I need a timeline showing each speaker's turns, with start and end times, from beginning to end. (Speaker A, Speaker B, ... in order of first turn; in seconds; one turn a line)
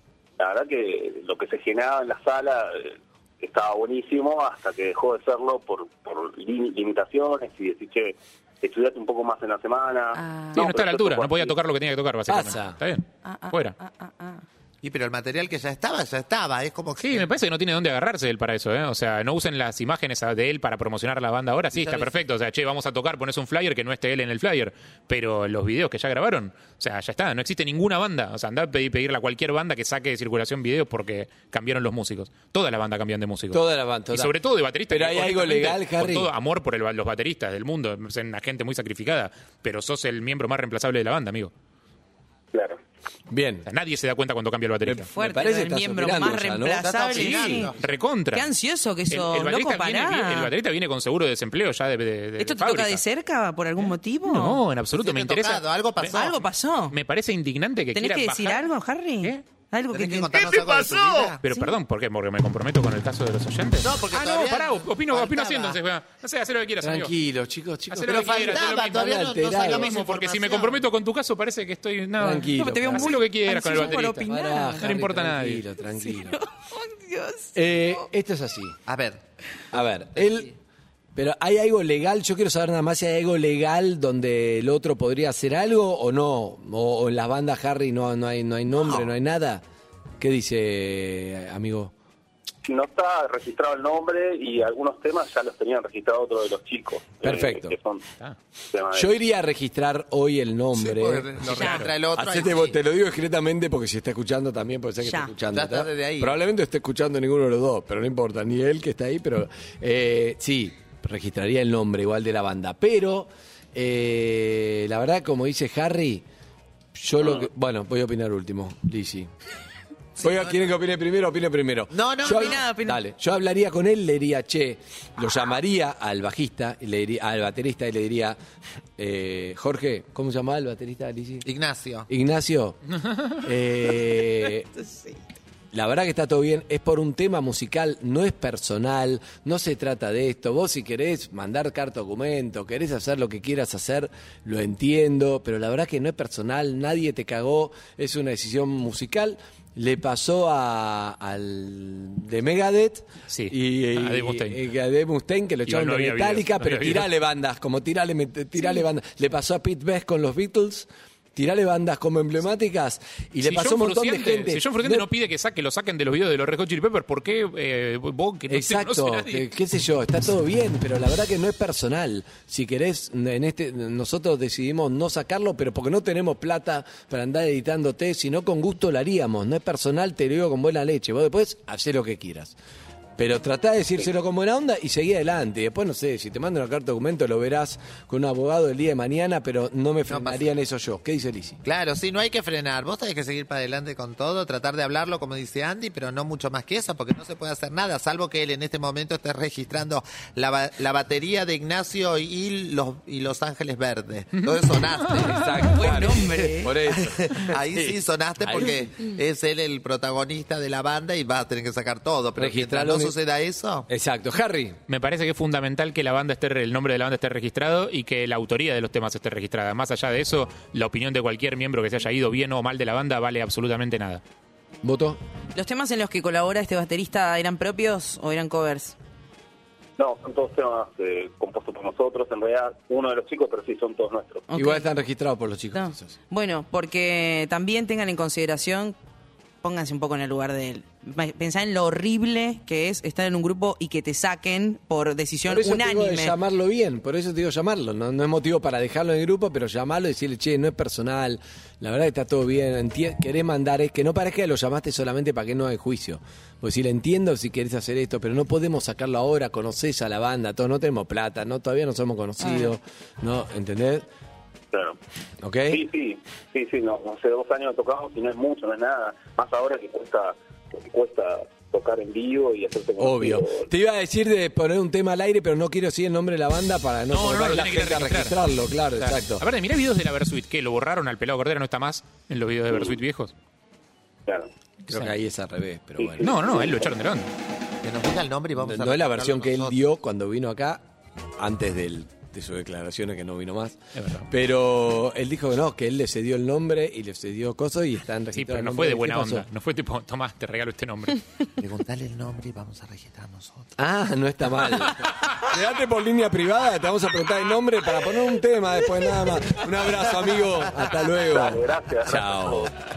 Speaker A: 0.4-11.6
Speaker B: 10.2-10.6
Speaker C: 10.5-13.8
Speaker D: 12.3-12.8
Speaker B: 13.2-14.4
Speaker E: 14.8-17.3
Speaker C: 17.0-41.5
Speaker E: 21.8-22.1
Speaker D: 33.5-34.3
Speaker D: 34.9-36.3
Speaker A: 42.5-42.8
Speaker D: 43.3-43.7
Speaker C: 43.7-45.1
Speaker D: 44.8-46.8
Speaker B: 45.1-47.7
Speaker E: 46.8-47.7
Speaker C: 47.7-48.5
Speaker B: 48.3-50.5
Speaker C: 49.1-53.0
Speaker B: 52.4-54.6
Speaker C: 53.8-56.3
Speaker E: 54.9-56.4
Speaker B: 56.1-57.0
Speaker C: 56.9-58.7
Speaker B: 57.9-60.7
Speaker E: 59.9-61.4
Speaker C: 61.4-67.1
Speaker B: 61.5-61.7
Speaker E: 63.8-65.8
Speaker D: 66.8-69.9
Speaker C: 67.9-75.6
Speaker E: 68.1-70.8
Speaker D: 72.2-73.1
Speaker B: 72.5-74.9
Speaker D: 74.3-76.4
Speaker B: 75.9-77.9
Speaker D: 77.5-78.8
Speaker E: 78.8-79.2
Speaker D: 79.7-80.5
Speaker D: 81.2-89.6
Speaker E: 88.8-89.1
Speaker D: 90.2-91.9
Speaker A: 92.7-98.0
Speaker D: 97.2-97.7
Speaker A: 98.7-99.1
Speaker D: 98.9-101.5
Speaker E: 100.7-102.8
Speaker B: 101.5-101.8
Speaker C: 101.5-101.9
Speaker D: 102.1-116.2
Speaker B: 105.0-105.3
Speaker E: 105.5-106.4
Speaker D: 116.9-119.3
Speaker E: 120.2-120.5
Speaker D: 120.2-128.4
Speaker E: 121.9-122.7
Speaker B: 122.2-123.0
Speaker D: 129.0-131.4
Speaker E: 131.4-132.1
Speaker D: 132.1-132.8
Speaker D: 133.3-134.7
Speaker B: 134.8-135.2
Speaker D: 135.7-165.1
Speaker C: 153.3-154.6
Speaker C: 155.7-157.1
Speaker C: 163.4-169.5
Speaker D: 168.5-182.5
Speaker D: 183.2-191.6
Speaker E: 190.1-190.5
Speaker E: 191.6-213.9
Speaker D: 205.2-208.6
Speaker B: 205.7-206.8
Speaker D: 212.4-213.1
Speaker D: 213.9-214.8
Speaker C: 214.9-224.2
Speaker D: 224.8-225.2
Speaker B: 225.5-228.9
Speaker A: 230.0-234.5
Speaker B: 234.5-234.9
Speaker D: 234.5-236.1
Speaker B: 235.7-238.9
Speaker B: 239.6-246.3
Speaker D: 245.5-264.1
Speaker B: 262.4-262.7
Speaker A: 264.7-265.0
Speaker D: 265.4-265.8
Speaker A: 265.7-273.7
Speaker D: 273.0-279.4
Speaker C: 277.1-283.3
Speaker A: 282.7-282.9
Speaker C: 284.9-285.1
Speaker D: 284.9-286.3
Speaker A: 286.0-286.9
Speaker C: 286.2-287.3
Speaker E: 287.8-289.8
Speaker D: 288.6-290.8
Speaker D: 291.4-293.8
Speaker C: 293.9-294.3
Speaker D: 294.3-299.5
Speaker C: 298.3-301.2
Speaker E: 301.6-303.7
Speaker D: 303.8-312.7
Speaker A: 311.1-312.7